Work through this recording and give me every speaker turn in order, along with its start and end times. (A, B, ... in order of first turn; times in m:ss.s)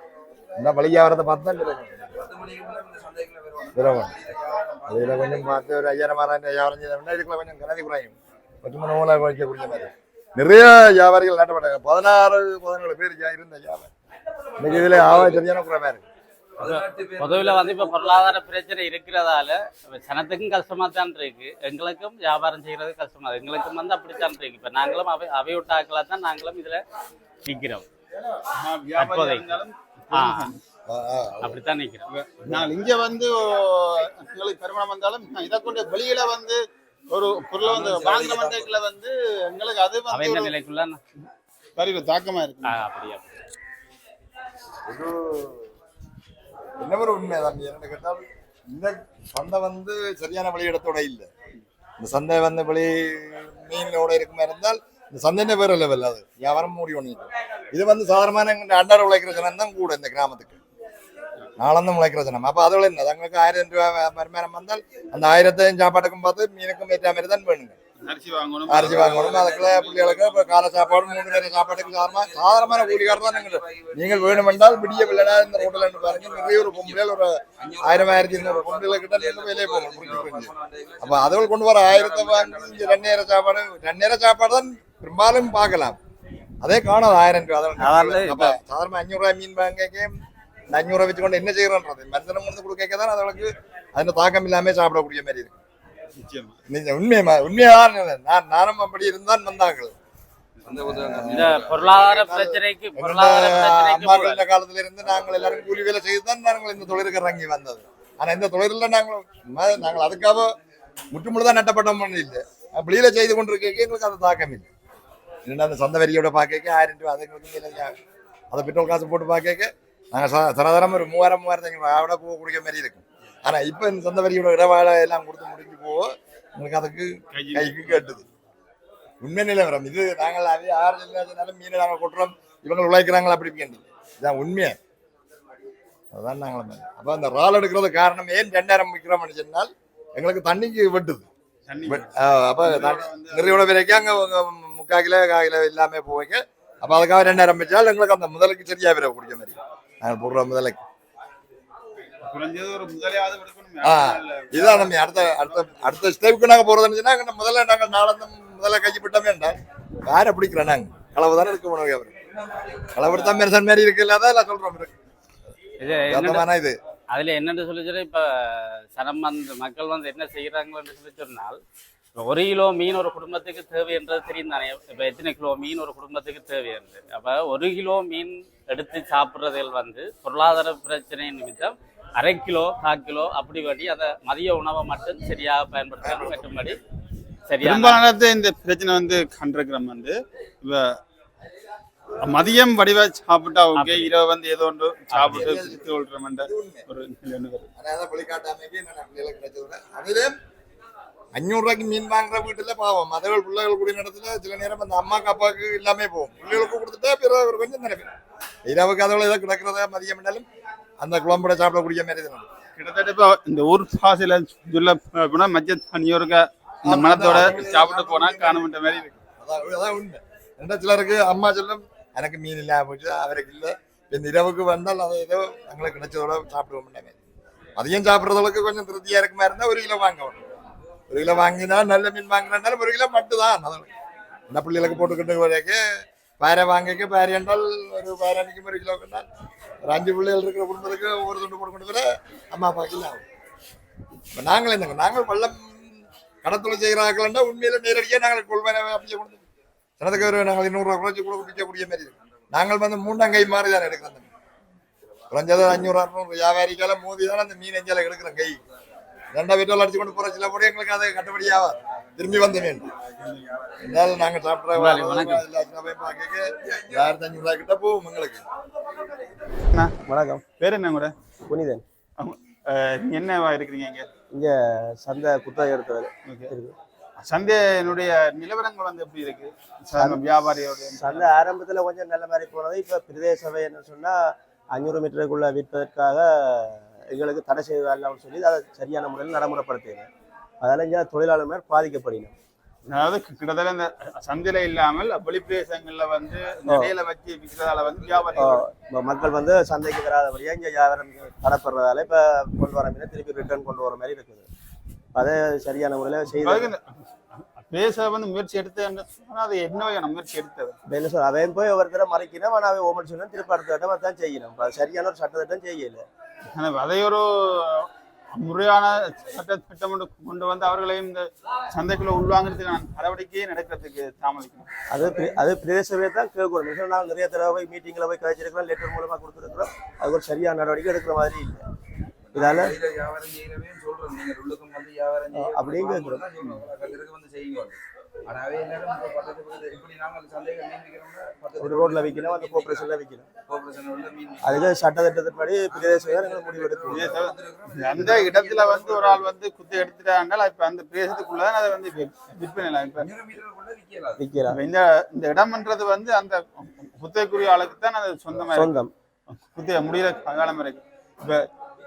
0:00.6-0:02.1 A
0:02.2-0:05.6 B
0:03.7-0:04.1 A
0:04.9-0:13.9 A
0:14.6-0:16.0 A
0:14.6-0:15.4 B
0:16.6-0:18.3 B
0:16.6-0:26.8 C
0:27.4-0:27.8 C
0:28.5-0:30.6 D
0:29.0-0:29.6 C
0:30.1-0:30.5 C
0:30.9-0:31.6 A
0:31.4-0:32.1 C
0:32.1-0:40.5 D
0:37.6-0:38.7 B
0:40.1-0:41.0 C
0:41.8-0:42.8 D
0:42.6-0:43.3 C
0:44.8-0:45.7 A
0:46.8-0:51.3 A
0:52.0-1:00.6 A
1:01.6-1:07.7 A
1:08.0-1:09.0 D
1:08.7-1:26.0 A
1:08.7-1:17.0 B
1:17.6-1:23.1 B
1:26.6-1:30.1 A
1:27.8-1:28.6 C
1:30.7-1:35.6 A
1:36.2-1:36.6 D
1:36.7-1:39.9 A
1:40.6-1:42.1 B
1:40.8-1:50.6 A
1:41.3-1:44.4 C
1:51.1-1:54.7 A
1:55.4-1:57.9 A
1:58.5-2:08.2 A
2:07.3-2:08.2 D
2:09.2-2:14.8 A
2:16.1-2:21.3 A
2:21.7-2:22.1 D
2:21.8-2:30.8 A
2:22.6-2:23.7 D
2:32.3-2:35.9 D
2:33.8-2:42.1 A
2:42.2-2:43.4 B
2:42.9-2:44.9 A
2:45.8-2:46.4 C
2:46.1-2:46.8 A
2:47.1-2:51.6 C
2:52.2-3:06.8 C
3:06.0-3:06.8 A
3:07.5-3:08.0 C
3:07.6-3:11.0 D
3:12.2-3:17.7 D
3:13.7-3:14.1 C
3:15.1-3:15.5 C
3:15.2-3:16.8 A
3:17.8-3:20.3 A
3:21.3-3:28.1 A
3:28.6-3:30.4 A
3:31.0-3:32.4 A
3:32.8-3:39.2 D
3:36.8-3:38.7 A
3:39.4-3:47.2 A
3:47.8-3:50.5 A
3:51.1-3:53.9 A
3:54.5-3:55.8 A
3:56.4-3:59.2 A
3:59.8-4:03.2 A
4:04.3-4:09.4 A
4:10.0-4:14.3 A
4:15.3-4:18.6 A
4:19.3-4:22.9 A
4:23.8-4:28.4 A
4:24.7-4:25.4 C
4:30.0-4:30.4 E
4:30.6-4:31.1 D
4:31.5-4:31.8 E
4:32.2-4:34.1 D
4:34.3-4:36.7 E
4:36.3-4:36.5 D
4:37.2-4:41.3 D
4:40.0-4:40.2 E
4:41.0-4:50.1 E
4:50.6-4:52.3 E
4:52.9-4:58.6 D
4:56.7-4:56.9 E
4:57.8-4:58.6 B
4:58.4-5:04.5 E
5:05.1-5:06.7 E
5:06.4-5:06.9 D
5:07.7-5:10.8 D
5:10.9-5:16.0 E
5:16.6-5:24.7 D
5:24.9-5:31.6 E
5:32.3-5:42.9 B
5:32.3-5:32.7 E
5:35.3-5:36.2 E
5:41.6-5:43.3 E
5:43.5-5:44.6 B
5:44.4-5:47.1 E
5:45.7-5:49.3 B
5:46.9-5:53.0 D
5:53.0-5:54.2 B
5:54.2-5:54.6 E
5:54.5-5:58.7 D
5:58.5-5:58.9 E
5:59.5-6:01.5 D